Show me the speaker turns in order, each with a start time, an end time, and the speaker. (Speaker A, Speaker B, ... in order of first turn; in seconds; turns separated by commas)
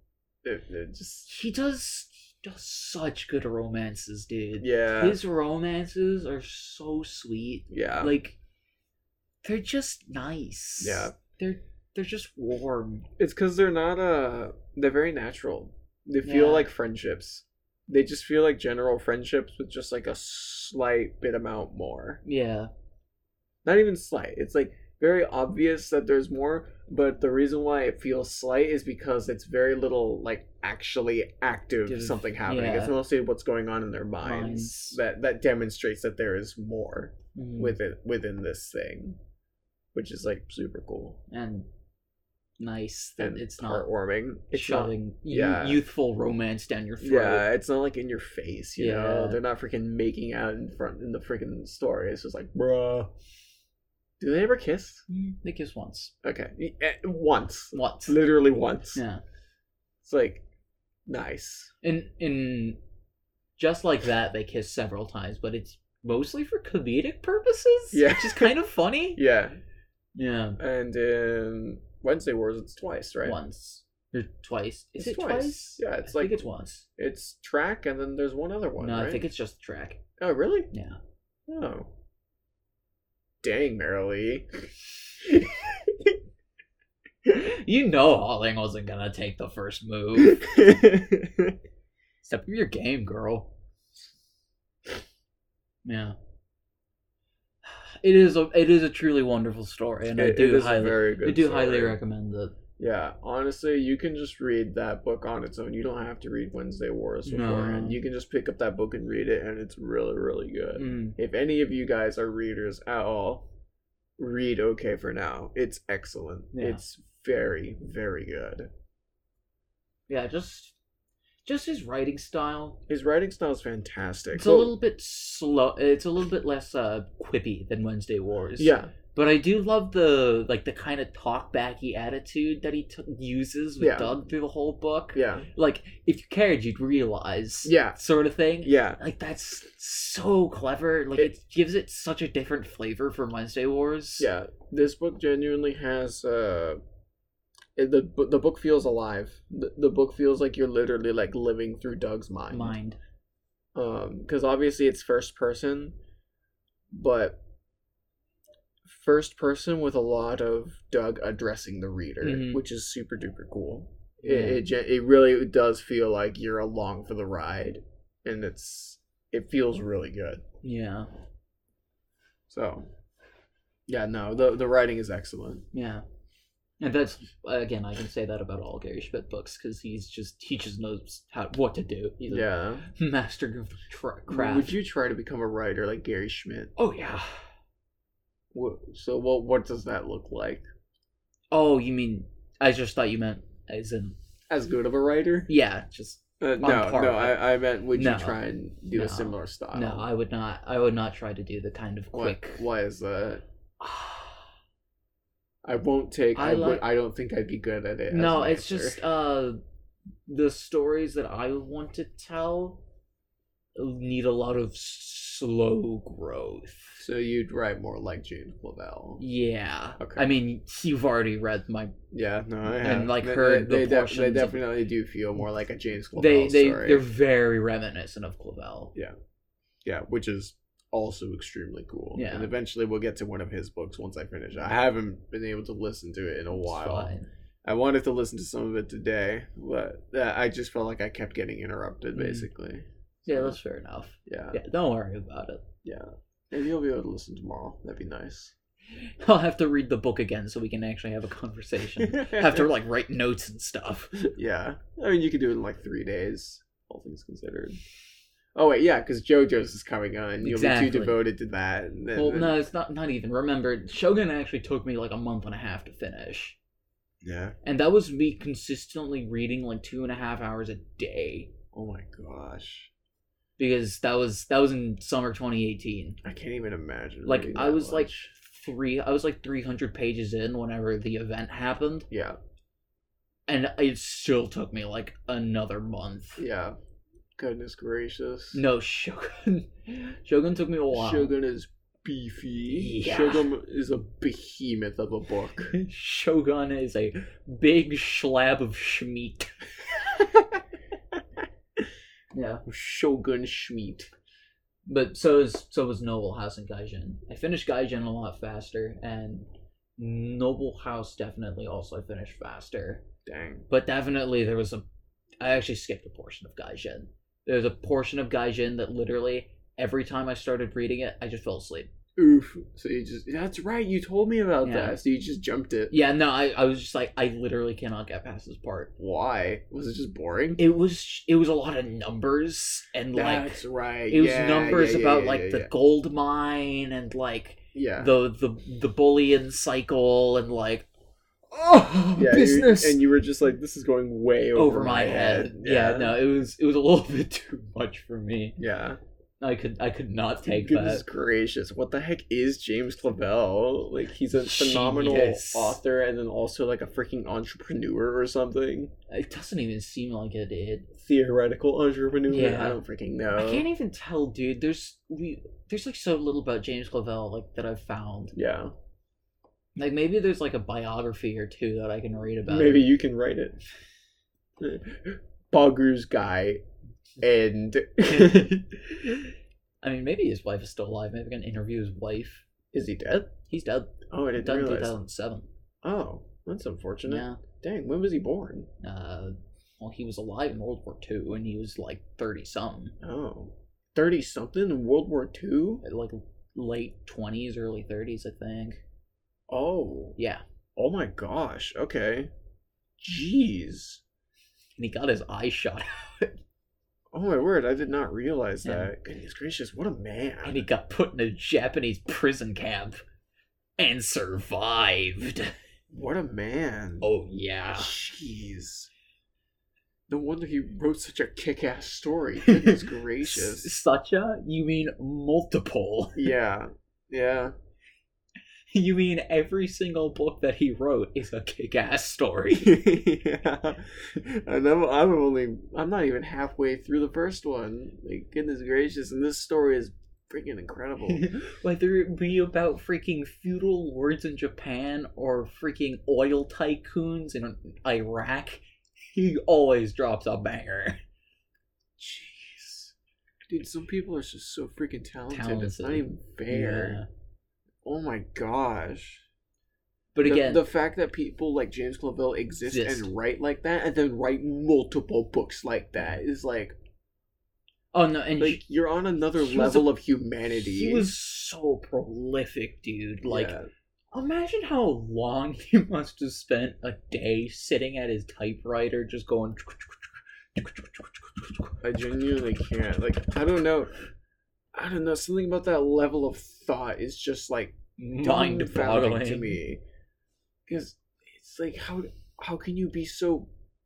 Speaker A: 0.4-1.3, Speaker B: 1.3-8.4, Speaker A: 4.6-5.2, Speaker A: 7.7-8.1, Speaker B: 9.4-13.1, Speaker A: 10.8-11.1, Speaker A: 13.2-22.2, Speaker B: 16.2-16.7, Speaker B: 22.2-22.7, Speaker A: 23.6-39.2, Speaker B: 31.9-33.0, Speaker B: 34.2-35.0, Speaker B: 37.3-37.8, Speaker A: 39.9-41.2, Speaker B: 41.3-41.7, Speaker B: 42.6-43.9, Speaker A: 43.2-45.8, Speaker B: 44.5-47.5, Speaker A: 47.0-53.1, Speaker B: 48.8-49.4, Speaker A: 54.2-55.0, Speaker B: 55.1-56.1, Speaker A: 56.2-59.0, Speaker B: 57.7-58.2, Speaker B: 58.9-59.2, Speaker A: 60.0-60.4, Speaker A: 61.1-61.7, Speaker B: 61.8-62.8, Speaker B: 63.6-69.2, Speaker A: 67.9-68.5, Speaker A: 69.1-69.6, Speaker B: 70.2-70.6, Speaker A: 70.6-73.4, Speaker B: 73.2-76.8, Speaker A: 75.0-79.2, Speaker B: 78.8-80.0, Speaker A: 80.2-80.7, Speaker B: 80.7-81.0, Speaker A: 81.5-81.9, Speaker A: 83.4-86.2, Speaker B: 87.2-90.5, Speaker A: 90.2-91.5, Speaker B: 92.2-93.5, Speaker B: 95.8-96.2, Speaker B: 97.6-102.6, Speaker A: 100.2-102.0, Speaker A: 102.8-113.5, Speaker B: 107.2-108.0, Speaker B: 110.8-111.2, Speaker A: 114.2-118.7, Speaker B: 116.5-116.8, Speaker B: 120.1-120.8, Speaker B: 121.4-122.8, Speaker A: 122.9-124.7, Speaker B: 124.3-144.3, Speaker A: 128.6-128.9, Speaker A: 133.8-134.1, Speaker A: 135.1-135.5, Speaker A: 137.6-138.0, Speaker A: 138.6-139.0, Speaker A: 144.2-146.8, Speaker A: 147.8-152.8, Speaker B: 152.5-153.0, Speaker A: 153.7-156.0, Speaker A: 156.9-157.4, Speaker A: 158.8-170.4, Speaker B: 162.2-162.6, Speaker B: 164.2-164.7, Speaker B: 170.6-171.1, Speaker A: 172.5-172.9, Speaker A: 173.9-175.7, Speaker B: 175.7-176.0, Speaker B: 176.8-184.8, Speaker A: 182.2-182.9, Speaker A: 184.3-186.7, Speaker B: 186.8-187.4, Speaker A: 188.5-190.6, Speaker B: 191.5-194.2, Speaker A: 194.5-195.5, Speaker B: 195.5-198.4, Speaker A: 196.4-200.1, Speaker B: 198.9-202.6, Speaker A: 202.1-203.4, Speaker B: 203.8-204.4, Speaker A: 205.6-209.0, Speaker B: 206.3-206.8, Speaker B: 208.1-209.6, Speaker B: 210.2-212.8, Speaker B: 213.8-217.0, Speaker A: 217.0-219.2, Speaker B: 219.2-221.9, Speaker A: 220.0-220.2, Speaker A: 222.1-227.0, Speaker B: 222.8-224.6, Speaker B: 226.2-228.9, Speaker A: 229.8-237.1, Speaker B: 232.1-232.5, Speaker B: 236.5-237.3, Speaker A: 237.6-243.6, Speaker B: 242.1-242.5, Speaker B: 243.2-245.6, Speaker A: 244.3-244.6, Speaker A: 245.8-248.5, Speaker B: 248.9-254.2, Speaker A: 252.0-252.7, Speaker A: 254.2-257.8, Speaker A: 258.5-262.6, Speaker B: 260.4-261.2, Speaker B: 262.1-266.6, Speaker A: 267.2-267.6, Speaker B: 267.6-271.5, Speaker A: 271.7-272.9, Speaker B: 273.6-276.2, Speaker A: 276.2-278.3, Speaker B: 277.2-282.1, Speaker A: 282.1-282.4, Speaker B: 283.5-286.4, Speaker A: 286.4-286.8, Speaker A: 287.4-288.6, Speaker B: 288.5-291.3, Speaker A: 290.9-295.7, Speaker B: 292.7-293.5, Speaker B: 295.7-299.5, Speaker B: 302.3-302.6, Speaker A: 302.6-304.1, Speaker B: 304.9-313.0, Speaker A: 313.2-313.7, Speaker B: 313.7-314.8, Speaker B: 315.4-321.9, Speaker A: 322.2-325.9, Speaker B: 324.6-325.0, Speaker B: 325.9-328.9, Speaker A: 329.0-330.6, Speaker B: 330.6-340.9, Speaker A: 333.1-335.7, Speaker A: 337.7-338.1, Speaker B: 341.5-343.0, Speaker A: 342.1-346.2, Speaker B: 344.5-348.6, Speaker A: 348.6-349.0, Speaker B: 349.4-351.0, Speaker A: 350.4-358.9, Speaker B: 354.4-355.8, Speaker B: 359.1-360.9, Speaker A: 361.0-363.7, Speaker B: 362.3-362.8, Speaker B: 363.3-368.3, Speaker A: 368.3-368.7, Speaker B: 369.8-372.9, Speaker A: 372.4-373.6, Speaker A: 374.6-376.6, Speaker A: 377.2-378.6, Speaker B: 378.0-382.4, Speaker A: 382.7-383.3, Speaker B: 383.4-385.5, Speaker A: 384.1-384.9, Speaker A: 385.8-388.7, Speaker B: 387.1-387.4, Speaker B: 388.8-392.9, Speaker A: 393.0-395.8, Speaker B: 395.8-398.8, Speaker A: 399.5-400.2, Speaker B: 400.2-400.4, Speaker A: 400.8-402.3, Speaker A: 403.0-404.0, Speaker B: 404.8-406.3, Speaker A: 407.1-410.6, Speaker B: 408.6-408.9, Speaker B: 410.4-413.0, Speaker B: 413.8-415.5, Speaker A: 415.9-417.1, Speaker B: 417.0-417.9, Speaker A: 417.7-418.9, Speaker A: 420.1-423.7, Speaker B: 422.4-426.3, Speaker A: 426.1-427.5, Speaker B: 428.7-432.9, Speaker A: 432.5-441.3, Speaker B: 441.1-451.0, Speaker A: 452.0-452.9, Speaker A: 453.5-457.0, Speaker B: 455.3-457.1, Speaker A: 457.8-459.2, Speaker B: 460.1-460.6, Speaker A: 460.2-466.8, Speaker B: 462.6-463.1, Speaker B: 467.9-468.6, Speaker A: 468.4-471.1, Speaker B: 469.4-469.9, Speaker B: 470.5-473.6, Speaker A: 473.2-473.7, Speaker B: 474.1-481.7, Speaker A: 481.8-483.9, Speaker A: 484.7-489.8, Speaker B: 488.0-489.6, Speaker A: 490.7-493.5